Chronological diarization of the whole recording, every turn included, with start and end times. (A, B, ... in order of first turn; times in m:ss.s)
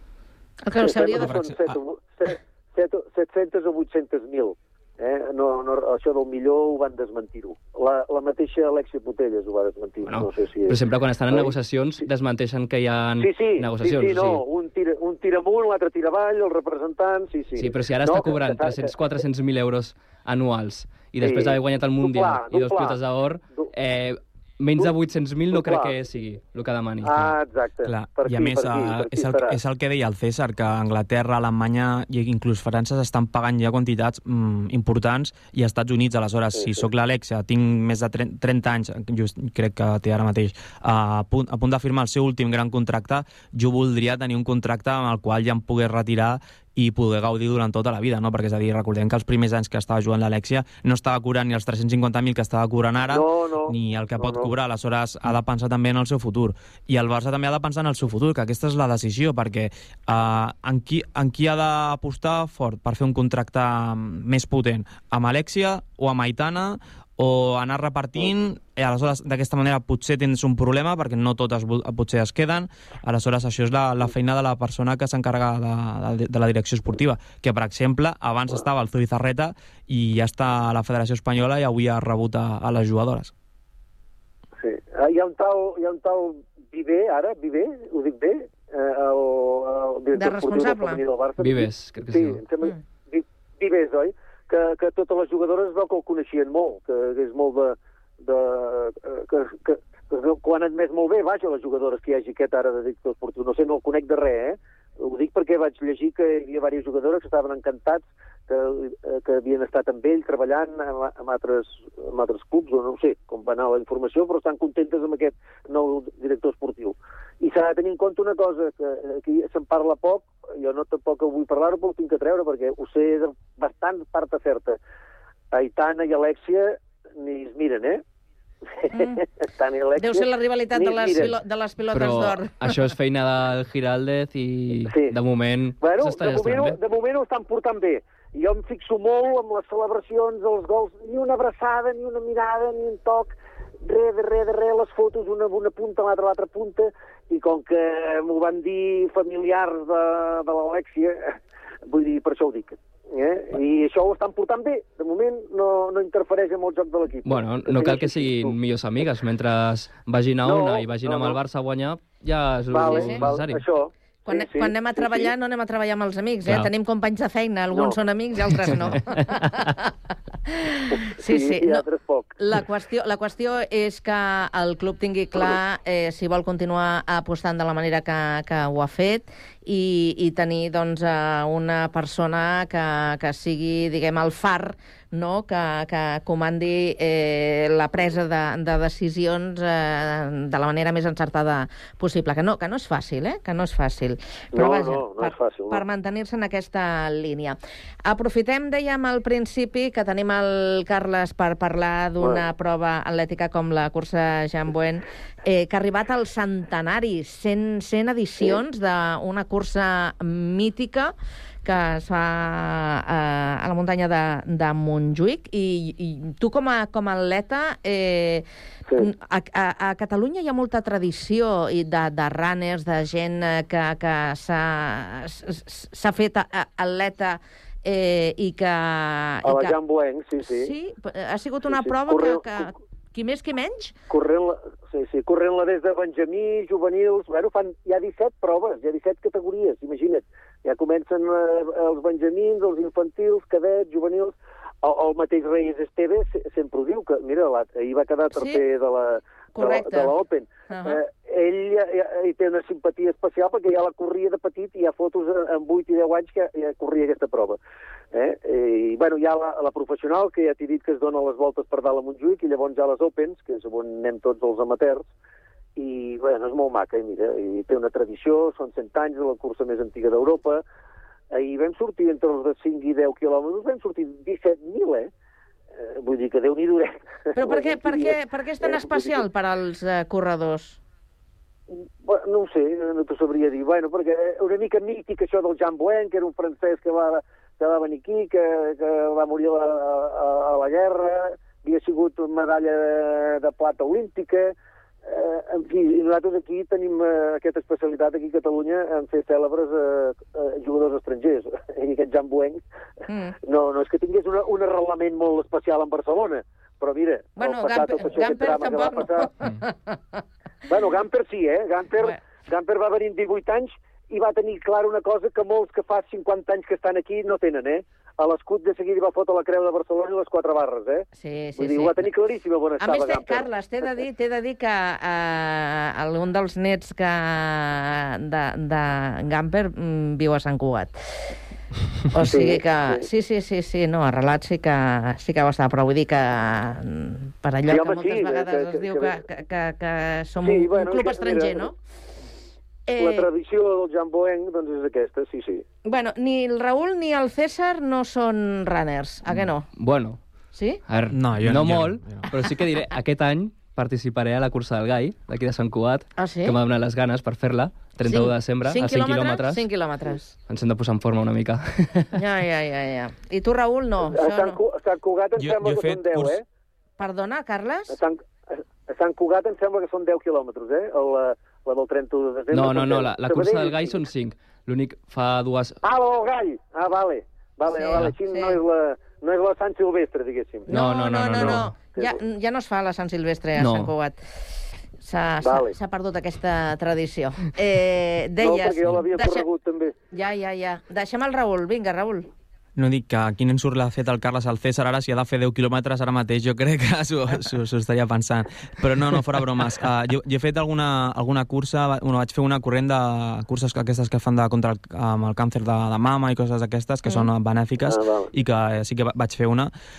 0:00.6-0:01.4 A
0:00.8-0:10.8 B
0:01.2-0:01.8 C
0:10.0-0:14.4 D
0:13.2-0:18.8 B
0:17.6-0:27.3 D
0:21.2-0:23.0 B
0:25.5-0:26.0 B
0:27.0-0:29.6 B
0:27.8-1:23.3 C
0:36.6-0:36.8 B
0:53.1-0:54.5 B
1:24.6-2:04.8 B
1:30.2-1:31.0 A
1:31.4-1:32.4 D
2:05.5-2:08.0 B
2:08.8-2:11.3 B
2:08.9-2:09.2 A
2:10.0-2:12.5 A
2:11.9-2:16.8 D
2:14.9-2:15.1 B
2:15.8-2:31.2 B
2:31.9-2:38.5 B
2:37.2-2:43.6 D
2:40.4-2:41.4 B
2:42.7-2:45.3 B
2:42.9-2:43.2 A
2:44.3-2:49.8 A
2:47.7-2:48.0 B
2:50.6-2:51.8 A
2:51.0-2:52.4 B
2:52.4-3:31.1 A
3:14.5-3:15.8 B
3:22.2-3:22.4 B
3:31.6-3:38.4 A
3:39.0-3:49.8 A
3:49.4-3:50.7 B
3:50.4-3:53.9 A
3:51.7-3:52.6 B
3:54.1-4:17.6 B
4:08.4-4:08.6 A
4:09.6-4:10.1 A
4:10.7-4:11.0 A
4:18.1-4:25.1 B
4:25.8-4:30.6 B
4:31.3-4:35.1 B
4:35.8-4:39.2 B
4:37.4-4:40.8 A
4:41.7-4:54.5 B
4:55.1-5:02.6 B
5:03.4-5:09.3 B
5:07.4-5:09.6 A
5:10.7-5:23.5 B
5:21.2-5:22.0 A
5:22.8-5:30.9 A
5:32.1-5:41.8 A
5:32.2-5:33.1 B
5:37.7-5:39.2 B
5:40.4-5:41.7 B
5:42.9-5:43.3 A
5:43.0-5:45.6 B
5:45.9-5:49.7 A
5:49.7-5:50.2 D
5:50.5-5:50.8 A
5:50.9-5:59.7 D
5:51.1-5:52.4 C
5:56.2-5:56.6 A
5:58.1-6:00.3 A
6:00.5-6:02.2 D
6:02.2-6:04.6 A
6:04.1-6:06.4 B
6:05.4-6:06.4 C
6:07.0-6:08.0 A
6:07.9-6:08.2 B
6:08.9-6:14.0 B
6:12.5-6:15.8 D
6:15.8-6:20.8 B
6:17.7-6:18.6 A
6:20.7-6:24.2 A
6:20.7-6:21.7 D
6:21.5-6:22.2 B
6:23.6-6:23.9 D
6:25.0-6:29.5 A
6:25.4-6:25.8 B
6:28.4-6:30.0 B
6:30.1-6:32.3 A
6:32.8-6:49.7 C
6:47.8-6:48.3 B